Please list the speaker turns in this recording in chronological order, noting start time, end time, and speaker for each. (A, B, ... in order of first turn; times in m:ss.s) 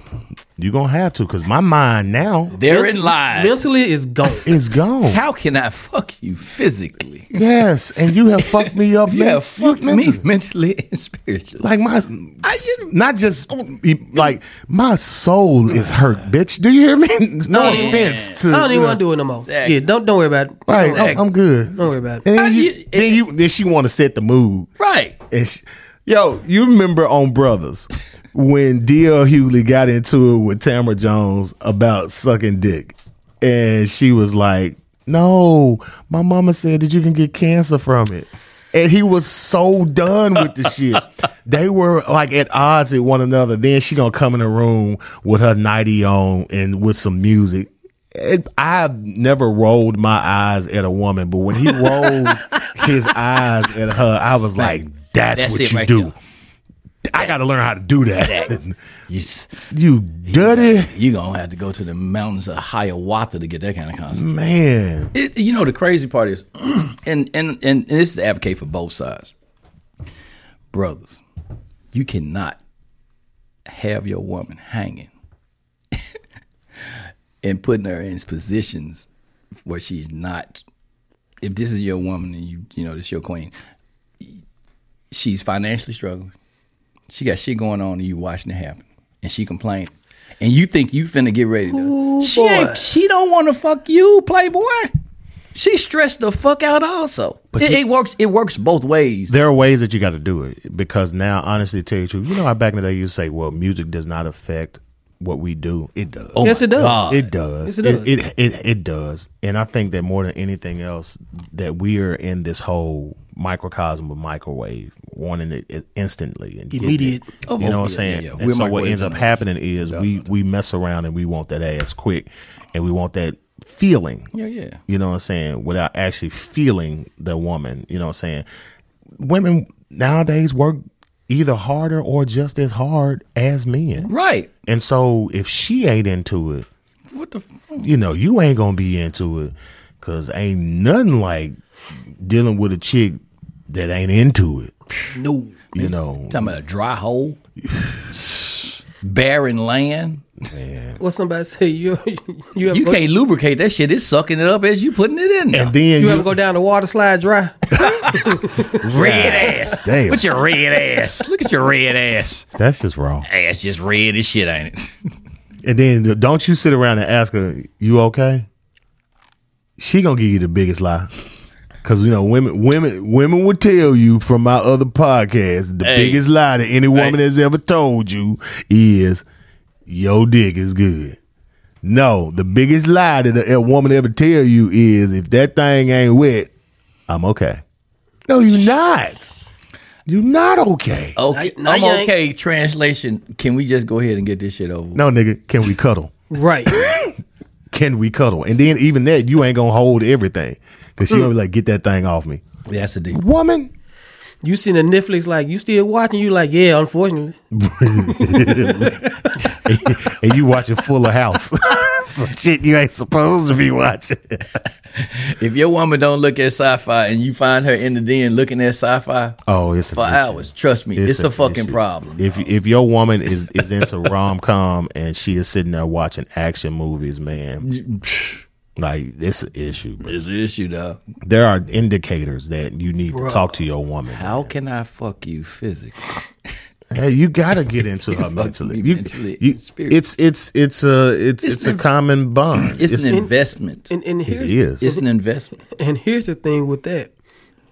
0:00.6-0:02.6 A
0:02.5-0:03.6 B
0:02.6-0:04.5 C
0:04.5-0:05.2 A
0:05.1-0:07.4 B
0:07.3-0:10.2 A
0:08.4-0:11.6 B
0:11.6-0:19.0 A
0:12.4-0:12.9 B
0:17.5-0:18.5 B
0:17.6-0:21.2 C
0:19.4-0:19.8 B
0:20.7-0:24.7 A
0:20.9-0:21.2 B
0:21.8-0:22.3 C
0:22.3-0:23.2 B
0:24.8-0:25.2 B
0:25.3-0:56.1 A
0:54.6-0:56.1 B
0:57.1-0:58.8 A
0:58.2-0:59.7 B
0:59.7-1:00.9 A
1:00.3-1:04.3 B
1:04.1-1:05.1 A
1:05.1-1:09.3 B
1:10.7-1:11.2 B
1:11.9-1:12.6 B
1:13.7-1:15.1 B
1:17.4-1:19.1 B
1:19.6-1:20.6 B
1:21.4-1:23.5 B
1:25.1-1:26.3 B
1:27.1-1:34.9 B
1:31.7-1:32.9 C
1:35.6-1:39.4 B
1:37.5-1:37.8 A
1:39.3-2:04.3 A
1:46.4-1:47.3 B
1:46.4-1:47.0 C
1:47.7-1:48.1 C
1:56.7-1:57.3 C
1:57.5-2:00.2 B
2:04.3-2:04.8 B
2:04.9-2:08.5 A
2:09.2-2:14.1 A
2:14.1-2:14.5 B
2:14.7-2:16.7 A
2:17.1-2:17.9 B
2:17.8-2:21.6 A
2:22.1-2:24.7 A
2:25.1-2:25.6 C
2:25.7-2:26.6 A
2:25.8-2:27.4 B
2:27.6-2:28.1 A
2:28.1-2:30.5 B
2:30.5-2:31.0 A
2:31.0-2:33.1 C
2:32.7-2:35.8 B
2:35.5-2:36.3 A
2:36.0-2:38.8 C
2:37.8-2:40.4 A
2:38.1-2:42.5 B
2:42.6-2:43.3 A
2:43.3-2:45.0 B
2:45.6-2:48.5 A
2:49.8-2:51.1 A
2:51.8-2:59.2 A
2:55.8-2:56.2 B
2:59.9-3:01.2 A
3:01.8-3:06.5 A
3:07.1-3:07.6 A
3:08.3-3:09.3 A
3:10.1-3:11.2 A
3:11.2-3:15.0 B
3:11.3-3:12.1 C
3:15.0-3:16.1 A
3:16.3-3:16.9 C
3:16.7-3:17.1 A
3:17.7-3:22.4 A
3:22.7-3:23.2 B
3:23.1-3:23.7 A
3:24.4-3:27.4 C
3:27.5-3:34.6 A
3:28.0-3:29.0 C
3:34.9-3:39.4 B
3:39.5-3:47.7 A
3:39.9-3:42.5 B
3:47.6-3:48.4 B
3:48.8-3:50.2 A
3:50.0-3:51.0 B
3:51.2-3:54.5 A
3:53.1-3:53.5 C
3:54.1-3:56.2 B
3:56.9-4:03.2 A
3:58.1-4:00.0 B
4:01.4-4:01.8 B
4:02.6-4:03.9 B
4:03.1-4:03.3 C
4:03.9-4:05.0 C
4:04.3-4:04.8 A
4:04.8-4:05.6 B
4:05.6-4:07.1 C